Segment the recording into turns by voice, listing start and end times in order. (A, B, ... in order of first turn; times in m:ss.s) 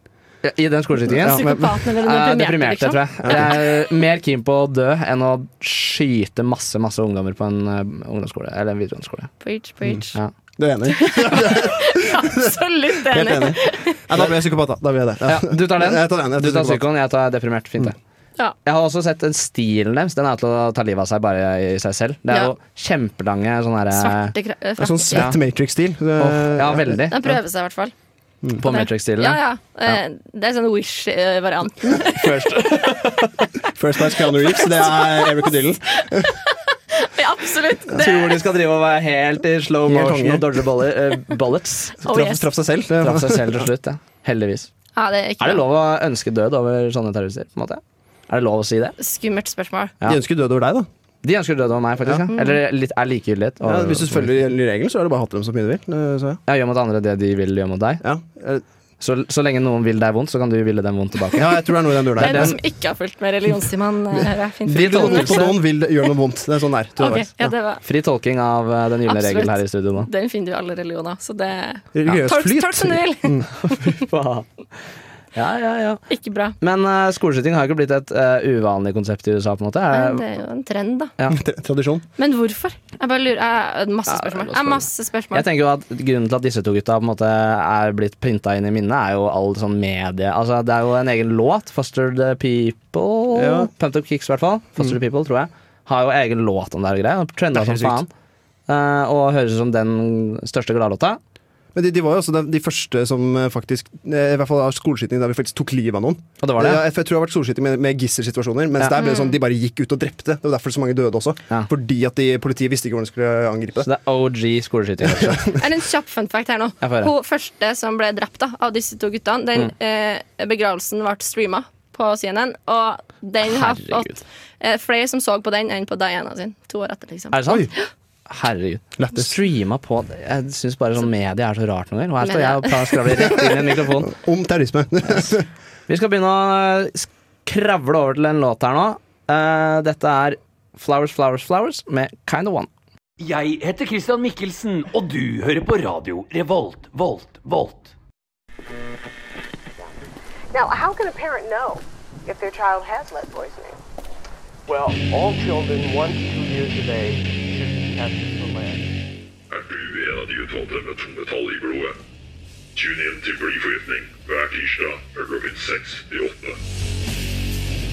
0:00.4-0:01.5 A
0:01.1-0:01.7 B
0:01.2-0:03.6 C
0:02.0-0:09.3 A
0:03.2-0:03.5 B
0:09.4-0:10.2 C
0:10.6-0:16.9 B
0:10.9-0:14.0 C
0:15.3-0:18.0 A
0:18.6-0:24.3 A
0:23.9-0:25.3 C
0:24.8-0:27.3 B
0:26.2-0:27.2 A
0:27.1-0:27.9 C
0:28.6-0:30.0 A
0:28.6-0:32.7 C
0:32.1-0:33.5 A
0:33.8-0:36.3 B
0:34.5-0:38.4 C
0:38.0-0:42.2 A
0:39.9-0:40.6 B
0:42.0-0:42.5 C
0:42.1-0:43.7 B
0:43.0-0:44.7 A
0:45.0-0:45.6 C
0:45.4-0:49.0 A
0:49.0-0:49.9 C
0:50.0-0:50.9 B
0:51.2-0:54.3 A
0:52.3-0:52.6 C
0:53.6-0:56.4 B
0:56.5-0:58.0 A
0:58.0-0:58.6 B
0:59.0-1:01.4 A
1:01.3-1:02.6 B
1:02.2-1:05.6 C
1:02.2-1:02.6 A
1:04.7-1:07.5 B
1:04.7-1:05.6 A
1:07.0-1:07.8 C
1:07.8-1:10.1 A
1:09.1-1:13.8 C
1:11.9-1:13.5 B
1:13.7-1:14.5 A
1:15.4-1:16.0 A
1:16.1-1:16.6 C
1:16.6-1:20.2 A
1:19.9-1:21.1 C
1:21.3-1:22.0 B
1:22.2-1:25.5 C
1:24.1-1:38.1 A
1:33.3-1:33.7 B
1:37.5-1:38.1 B
1:38.7-1:41.2 A
1:41.8-1:53.9 B
1:46.4-1:46.8 A
1:49.0-1:49.4 C
1:53.8-1:55.4 A
1:55.0-1:55.6 B
1:55.6-2:07.9 C
1:56.8-1:57.1 A
2:03.4-2:04.2 A
2:07.3-2:07.7 A
2:08.3-2:14.1 A
2:09.0-2:09.3 B
2:12.2-2:13.2 C
2:13.3-2:15.5 B
2:15.1-2:15.4 A
2:15.9-2:22.7 A
2:23.2-2:27.9 D
2:30.5-2:33.8 E
2:34.7-2:39.0 F
2:39.5-2:42.0 G
2:42.8-2:46.6 G